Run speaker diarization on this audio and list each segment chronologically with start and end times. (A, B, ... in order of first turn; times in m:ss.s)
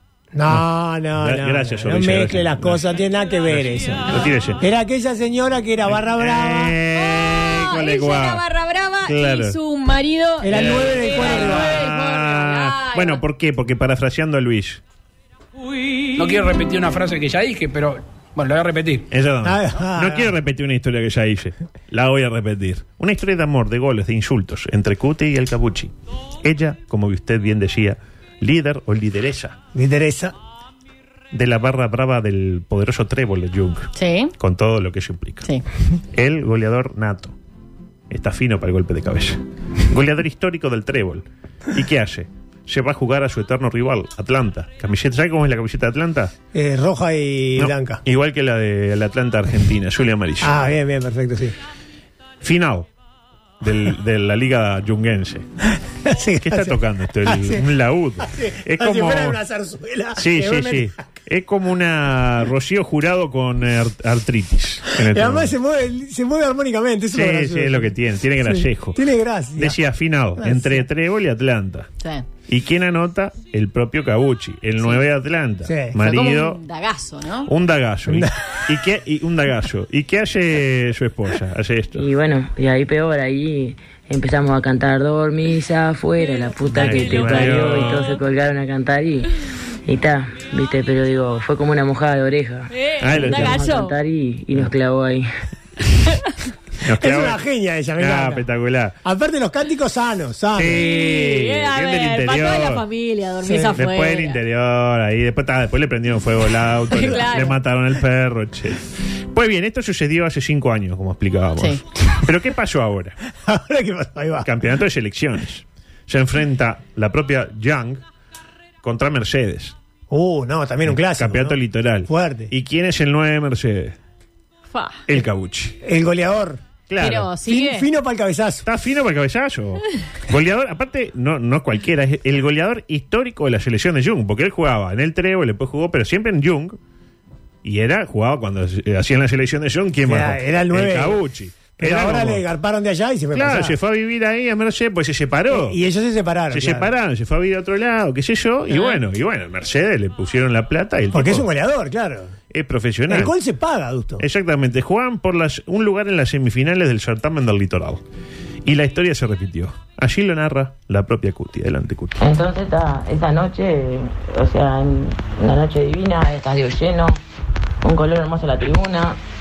0:00.3-0:06.8 A
0:01.2-0:02.8 B
0:03.5-0:04.6 B
0:05.8-0:08.4 B
0:07.0-0:13.2 C
0:09.0-0:09.6 B
0:10.4-0:11.8 A
0:10.5-0:14.8 B
0:16.2-0:19.1 D
0:19.1-0:29.6 B
0:19.4-0:20.3 A
0:29.7-0:30.3 A
0:31.3-0:35.5 B
0:33.9-0:34.3 C
0:36.1-0:37.3 B
0:38.1-0:46.3 B
0:46.5-0:48.0 A
0:47.6-0:50.6 B
0:50.4-0:51.5 A
0:52.4-0:52.9 B
0:53.6-0:55.4 B
0:56.0-0:57.6 A
0:56.4-0:59.4 B
0:58.3-1:00.9 A
1:00.2-1:05.5 B
1:05.1-1:07.9 A
1:07.1-1:09.0 B
1:08.4-1:09.8 A
1:09.6-1:11.9 B
1:10.4-1:10.8 A
1:12.0-1:12.2 C
1:12.5-1:16.6 B
1:15.7-1:15.9 A
1:16.0-1:17.5 C
1:17.5-1:22.0 B
1:18.1-1:18.3 A
1:22.0-1:29.3 E
1:26.5-1:27.6 C
1:26.7-1:28.1 B
1:29.8-1:35.3 E
1:32.7-1:33.9 C
1:33.0-1:33.6 B
1:36.8-1:37.4 B
1:37.0-1:38.4 A
1:38.0-1:39.0 B
1:39.0-1:40.9 A
1:40.5-1:42.8 B
1:40.8-1:44.4 C
1:43.4-1:43.7 A
1:43.7-1:53.2 B
1:46.9-1:47.6 C
1:53.4-1:54.5 A
1:54.4-1:58.0 B
1:58.8-1:59.7 B
2:00.1-2:01.6 A
2:00.8-2:04.0 B
2:02.1-2:02.5 A
2:04.7-2:05.0 C
2:05.1-2:05.8 B
2:05.8-2:06.6 A
2:06.9-2:07.3 B
2:07.0-2:07.9 C
2:07.4-2:08.6 A
2:08.6-2:16.8 B
2:17.6-2:22.4 B
2:20.0-2:21.2 A
2:21.8-2:23.7 A
2:23.3-2:25.8 B
2:25.5-2:26.9 A
2:26.5-2:31.5 B
2:28.7-2:29.0 C
2:31.1-2:32.3 A
2:32.5-2:33.3 B
2:33.1-2:34.2 A
2:34.2-2:38.0 B
2:38.6-2:42.2 B
2:42.2-2:47.2 E
2:47.8-2:49.2 E